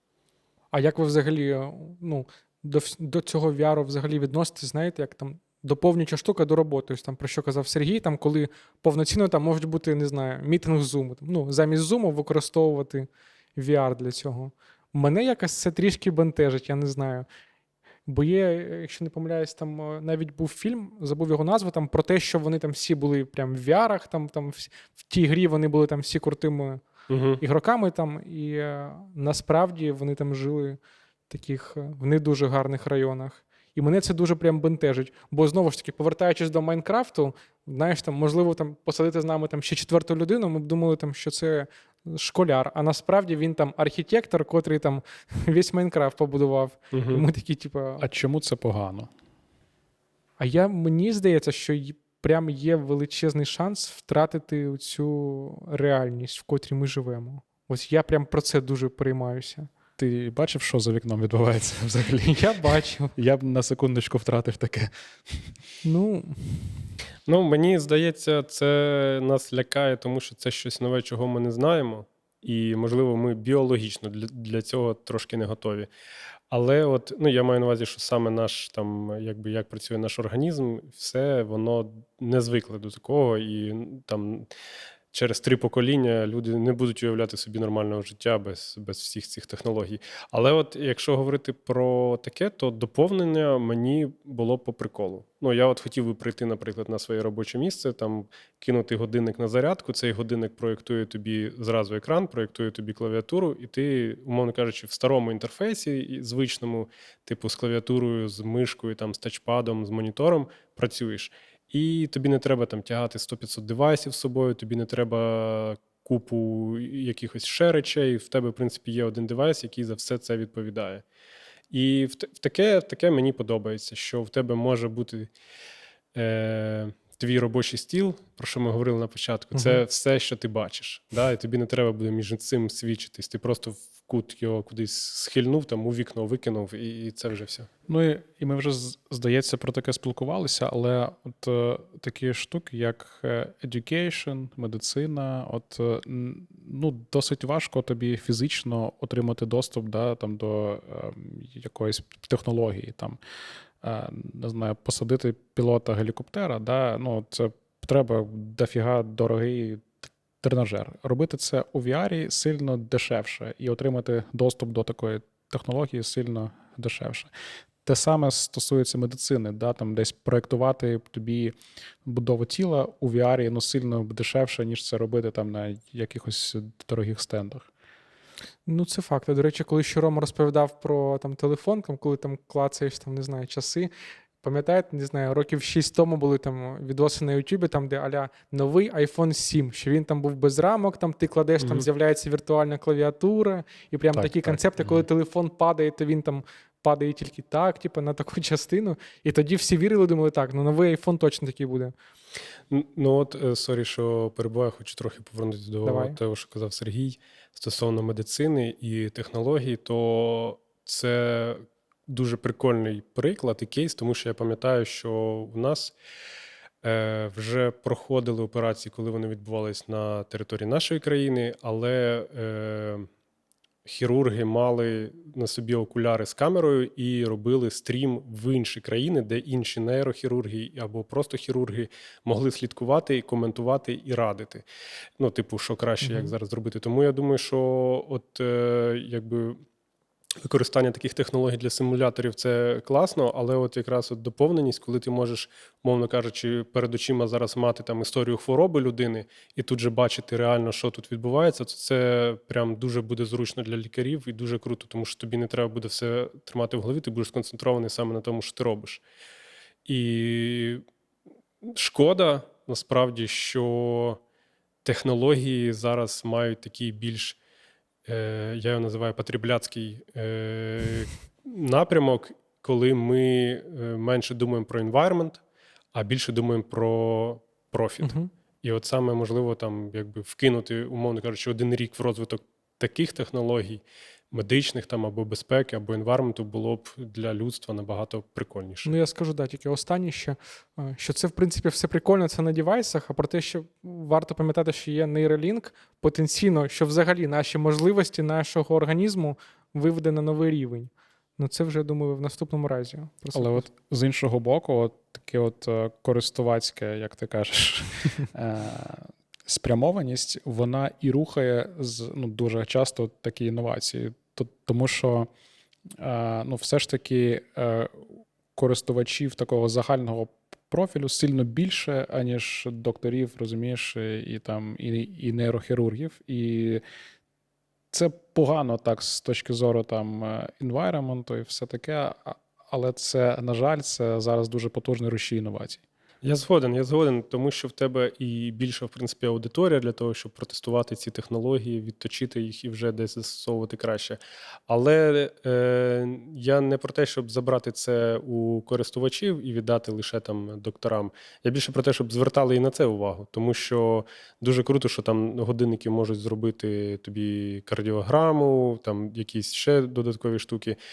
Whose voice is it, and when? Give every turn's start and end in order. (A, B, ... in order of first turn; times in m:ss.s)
0:00.7-0:17.3 A
0:18.1-0:26.8 A
0:27.1-0:27.4 B
0:27.4-0:30.8 A
0:31.3-0:48.0 A
0:46.9-0:47.2 B
0:48.0-0:49.1 C
0:50.4-0:59.7 A
1:00.0-1:05.5 C
1:02.4-1:03.1 A
1:05.8-1:06.7 A
1:07.3-1:15.9 B
1:16.5-1:24.5 B
1:25.1-2:01.0 B
2:01.7-2:05.3 B
2:06.1-2:17.7 B
2:09.5-2:09.8 A
2:17.9-2:33.2 C
2:33.8-2:47.3 C
2:47.8-2:57.7 C
2:58.7-3:03.9 A
3:04.4-3:21.9 A
3:14.2-3:15.0 C
3:22.7-3:35.9 B
3:25.8-3:26.2 A
3:36.8-3:43.1 B
3:43.8-3:54.6 B
3:55.2-3:59.6 B
3:56.0-3:56.3 A
4:00.4-4:19.0 B
4:19.9-4:20.8 B
4:21.6-4:24.2 B
4:24.8-4:27.4 B
4:28.1-4:35.4 B
4:35.9-4:48.9 B
4:38.0-4:38.3 A
4:48.9-5:03.7 A
5:03.3-5:15.3 C
5:16.0-5:26.8 C
5:27.9-5:35.8 C
5:36.2-6:00.8 B